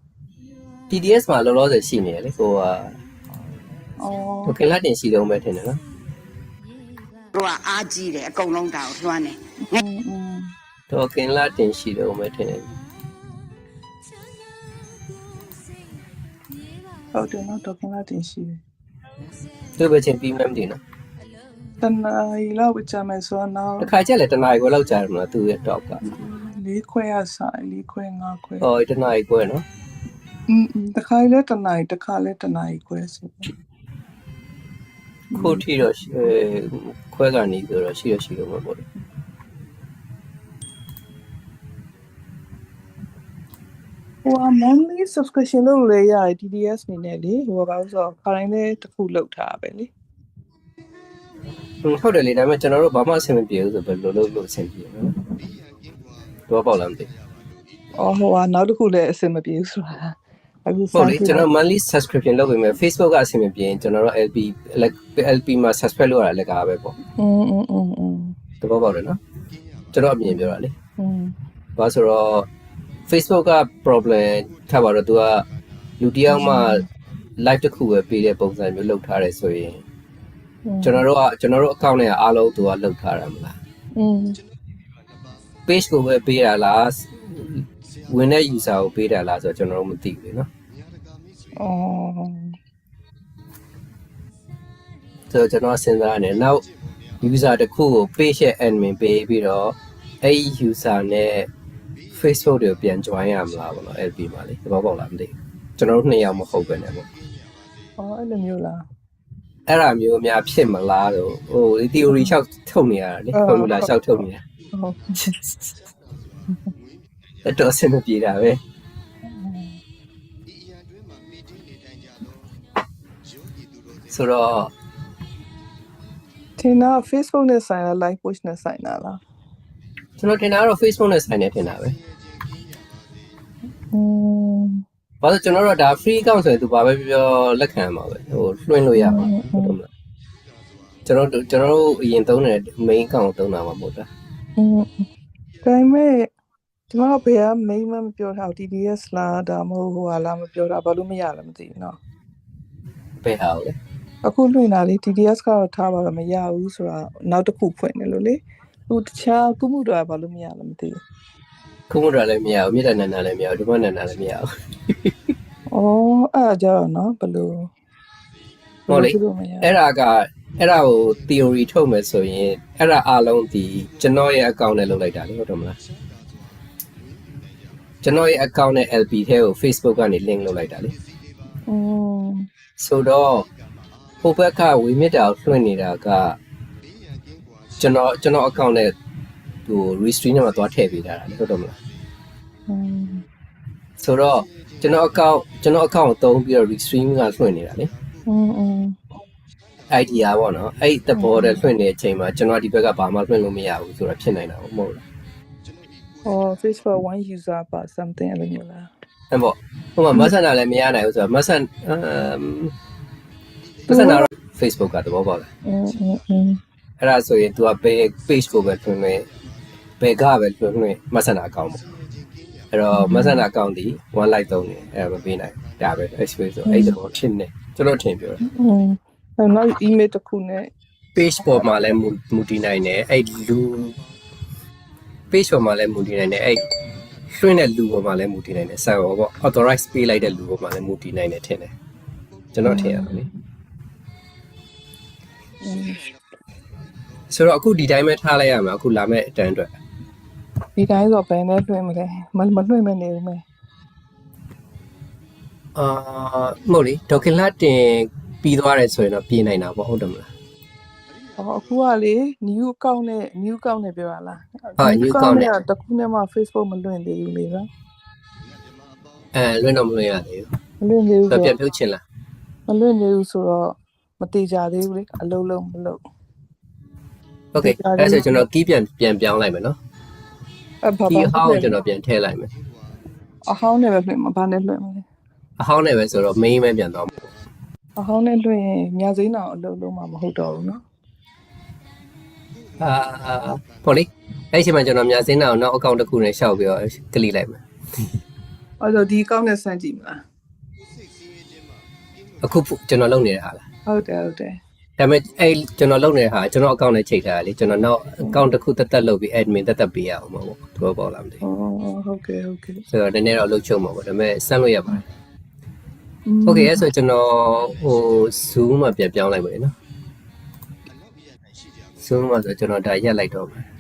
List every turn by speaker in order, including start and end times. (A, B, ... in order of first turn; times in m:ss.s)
0:00.9-0:03.0 A
0:04.0-0:04.6 B
0:04.5-0:05.8 A
0:07.4-0:09.4 C
0:09.6-0:10.5 B
0:10.9-0:12.8 A
0:17.1-0:18.6 B
0:19.8-0:20.8 A
0:21.8-0:23.9 B
0:23.8-0:26.0 A
0:26.0-0:28.6 B
0:28.6-0:29.6 A
0:30.5-0:33.5 B
0:35.3-0:35.6 B
0:35.4-0:38.9 A
0:44.2-0:49.9 B
0:51.8-0:55.2 A
0:56.5-0:57.1 A
0:58.0-1:01.5 B
1:00.9-1:07.0 A
1:07.2-1:08.3 B
1:08.6-1:09.2 A
1:09.9-1:10.7 A
1:10.3-1:11.3 B
1:11.8-1:12.5 A
1:13.1-1:15.5 A
1:16.0-1:16.8 A
1:16.3-1:16.8 B
1:17.4-1:19.8 A
1:20.7-1:21.0 B
1:20.8-1:23.6 A
1:24.0-1:24.4 B
1:25.7-1:30.5 A
1:31.6-1:32.5 B
1:35.3-1:36.6 A
1:37.2-1:41.5 A
1:42.1-1:47.1 A
1:48.0-1:48.8 B
1:49.7-1:54.4 A
1:53.3-1:53.9 B
1:54.7-1:55.8 B
1:57.4-1:58.6 A
1:59.3-1:59.8 B
2:04.1-2:04.7 A
2:06.6-2:09.2 B
2:10.2-2:12.0 A
2:13.9-2:14.8 B
2:15.2-2:19.9 A
2:19.0-2:19.8 B
2:21.1-2:24.1 A
2:24.6-2:25.1 B
2:25.6-2:26.3 B
2:26.9-2:32.0 B
2:33.2-2:33.8 A
2:34.2-2:41.0 B
2:41.9-2:45.1 A
2:45.7-2:47.7 B
2:48.9-2:55.8 A
2:48.9-2:49.7 B
2:58.0-3:01.0 A
3:01.7-3:02.4 B
3:02.8-3:03.5 A
3:04.2-3:06.4 A
3:07.8-3:08.9 A
3:09.7-3:11.7 A
3:12.7-3:13.2 B
3:14.0-3:17.9 A
3:18.3-3:19.0 B
3:19.9-3:25.0 A
3:21.2-3:21.6 B
3:26.2-3:28.9 B
3:29.3-3:32.7 A
3:33.9-3:34.3 B
3:33.9-3:35.5 A
3:35.7-3:36.6 B
3:37.0-3:39.3 A
3:40.0-3:41.9 A
3:42.7-3:48.4 A
3:42.9-3:43.4 B
3:46.7-3:47.0 B
3:48.4-3:50.7 B
3:51.2-3:54.0 A
3:55.3-3:56.6 A
3:57.3-4:01.7 A
4:02.5-4:03.3 A
4:02.6-4:03.1 B
4:05.6-4:06.0 B
4:07.3-4:09.7 A
4:10.8-4:13.4 B
4:15.8-4:20.3 A
4:21.4-4:27.7 B
4:24.8-4:25.5 A
4:29.3-4:30.5 A
4:30.8-4:31.6 B
4:31.3-4:32.0 A
4:32.7-4:36.0 B
4:37.5-4:39.8 A
4:37.6-4:38.4 B
4:40.8-4:41.8 B
4:41.1-4:42.5 A
4:43.5-4:45.0 B
4:45.6-4:47.3 A
4:48.0-4:50.8 B
4:52.8-4:57.6 A
4:58.8-5:00.2 B
5:02.4-5:03.6 A
5:03.9-5:04.6 B
5:05.0-5:11.4 A
5:11.4-5:12.8 B
5:12.9-5:15.0 A
5:16.3-5:16.9 B
5:16.5-5:19.7 A
5:22.0-5:23.6 A